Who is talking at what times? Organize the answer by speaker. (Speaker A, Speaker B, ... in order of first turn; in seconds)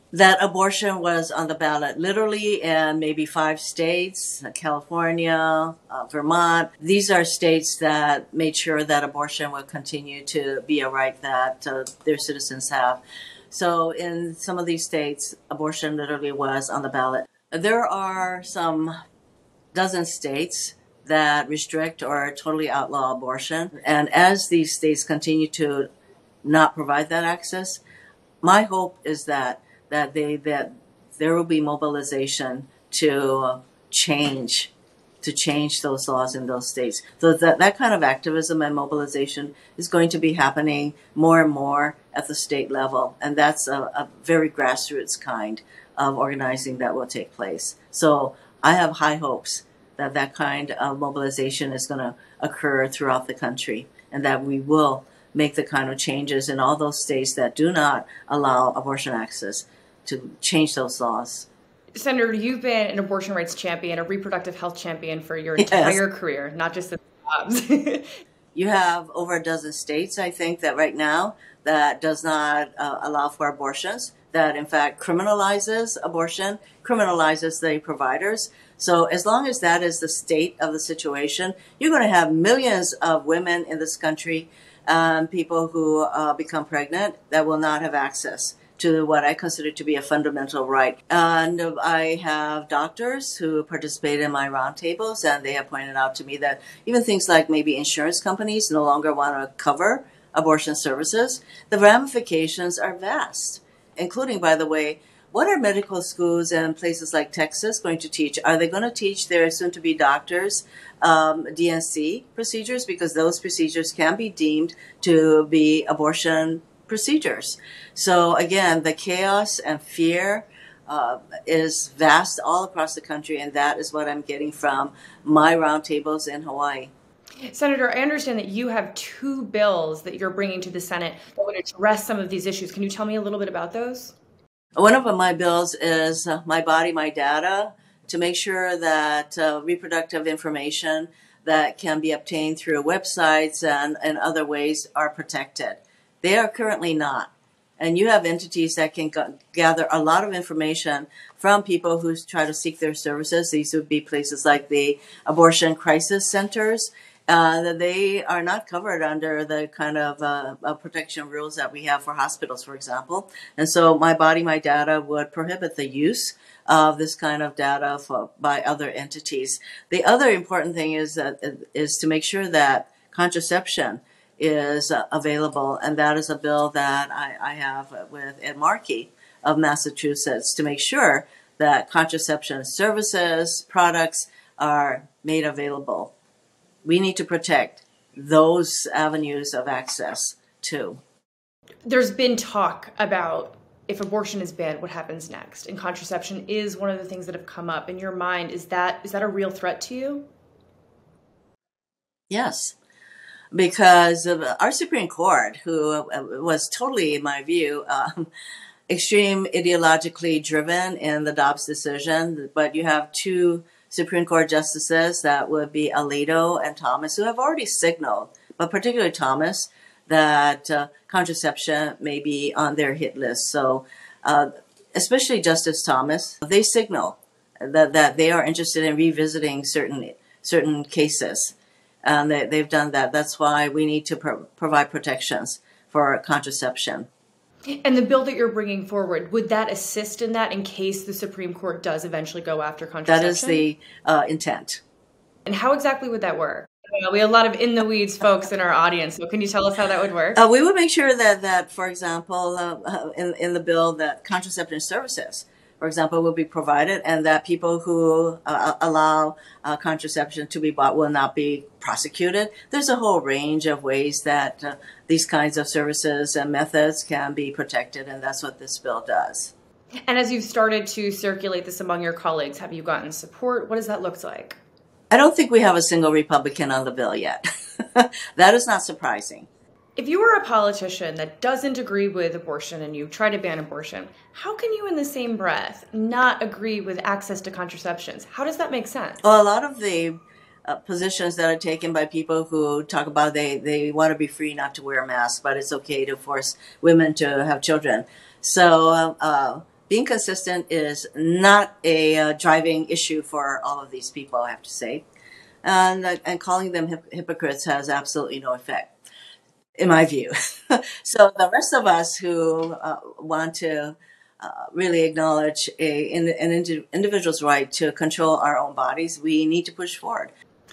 Speaker A: 0.1-18.9, 19.7-25.9, 26.4-27.8, 28.4-34.7, 35.2-61.5, 65.6-66.0, 68.5-126.9, 134.8-186.1, 186.8-191.0, 202.3-202.8, 203.5-208.3, 208.9-237.1, 243.1-244.8, 250.4-269.5, 275.1-277.4, 277.9-279.5, 289.2-305.0, 305.6-308.9, 309.8-320.3
Speaker B: 62.0-68.2, 127.5-134.2, 191.9-200.2, 237.7-243.6, 245.4-250.4, 270.1-274.6, 280.0-289.2